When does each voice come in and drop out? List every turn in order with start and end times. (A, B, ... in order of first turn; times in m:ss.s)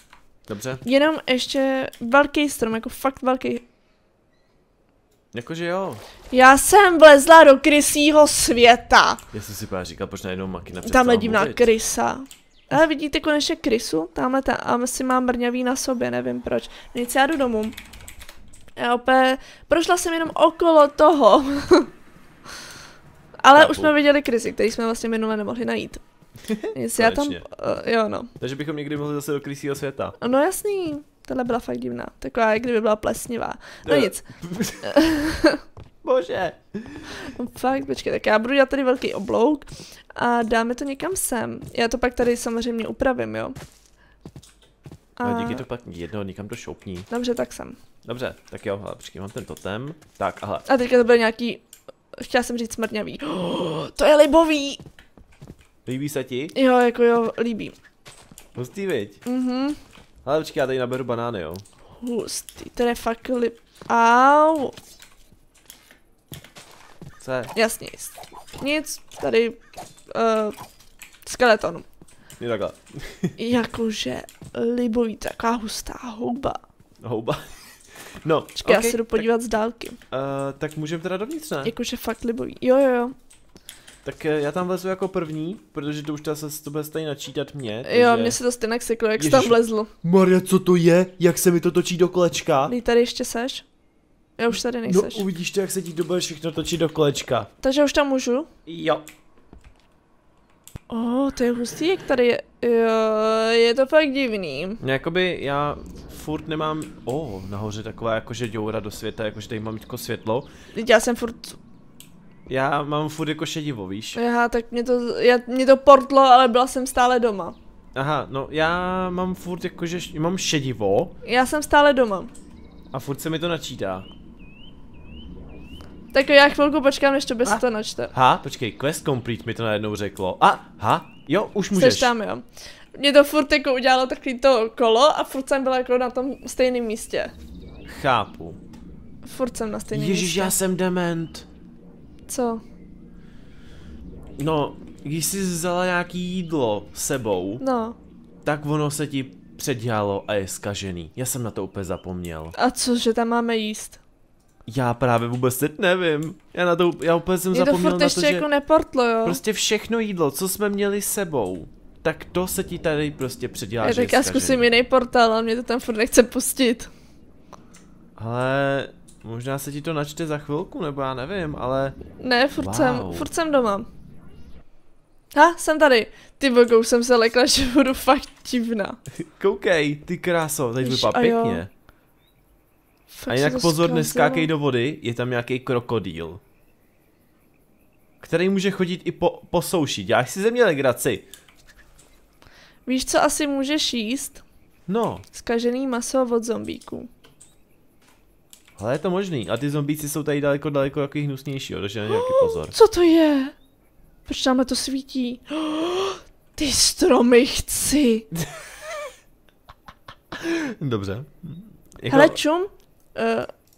0:00.5-0:00.8 A
0:00.8-0:03.6 B
0:05.3-0:06.0 A
0:06.3-0:09.2 B
0:09.3-0:11.7 A
0:10.8-0:17.8 B
0:18.8-0:21.9 B
0:23.4-0:26.0 B
0:23.5-0:23.9 A
0:26.4-0:27.4 A
0:26.7-0:28.3 B
0:28.4-0:30.2 A
0:30.2-0:34.2 B
0:33.9-0:35.0 A
0:34.8-0:35.6 B
0:36.0-0:37.1 A
0:37.2-0:43.6 B
0:45.2-0:45.6 B
0:45.2-0:47.1 A
0:47.1-0:47.8 B
0:48.0-0:50.7 A
0:50.7-0:51.6 B
0:52.2-0:54.8 B
0:55.9-0:56.5 A
0:56.6-0:57.8 B
0:58.6-0:59.2 A
0:59.2-0:59.8 B
1:00.2-1:01.6 A
1:02.0-1:04.8 B
1:07.2-1:07.5 A
1:07.6-1:09.6 B
1:10.1-1:10.6 B
1:11.2-1:11.8 B
1:12.4-1:13.4 A
1:13.4-1:16.6 B
1:17.0-1:17.4 A
1:18.2-1:19.3 A
1:18.6-1:20.0 B
1:20.1-1:21.7 A
1:21.6-1:23.1 B
1:24.0-1:28.4 A
1:27.8-1:29.9 B
1:29.2-1:32.7 A
1:32.7-1:33.6 B
1:34.4-1:35.2 B
1:34.8-1:37.5 A
1:37.6-1:38.5 B
1:38.7-1:39.1 A
1:40.9-1:44.8 B
1:44.8-1:50.5 A
1:50.7-1:51.6 B
1:52.5-1:54.2 A
1:54.2-1:57.6 B
1:58.0-2:01.1 A
2:01.2-2:02.3 B
2:02.9-2:04.1 A
2:06.1-2:08.1 B
2:07.4-2:12.1 A
2:11.7-2:17.3 B
2:17.9-2:18.6 A
2:19.2-2:20.6 B
2:19.9-2:21.5 A
2:22.3-2:22.6 B
2:24.4-2:27.6 A
2:27.6-2:28.0 B
2:28.4-2:32.6 A
2:32.6-2:34.0 B
2:34.7-2:38.5 A
2:37.5-2:39.4 B
2:39.2-2:44.7 A
2:43.8-2:46.9 B
2:48.2-2:52.0 A
2:52.2-2:53.9 B
2:52.6-2:53.3 A
2:55.3-2:59.0 B
2:59.2-3:01.7 A
3:00.8-3:01.6 B
3:03.1-3:04.5 B
3:03.3-3:06.4 A
3:08.2-3:11.2 A
3:12.9-3:14.4 B
3:14.9-3:15.2 A
3:15.3-3:17.1 B
3:18.8-3:22.7 A
3:22.1-3:23.6 B
3:24.3-3:28.3 B
3:28.4-3:28.7 A
3:30.3-3:32.4 A
3:32.1-3:33.5 B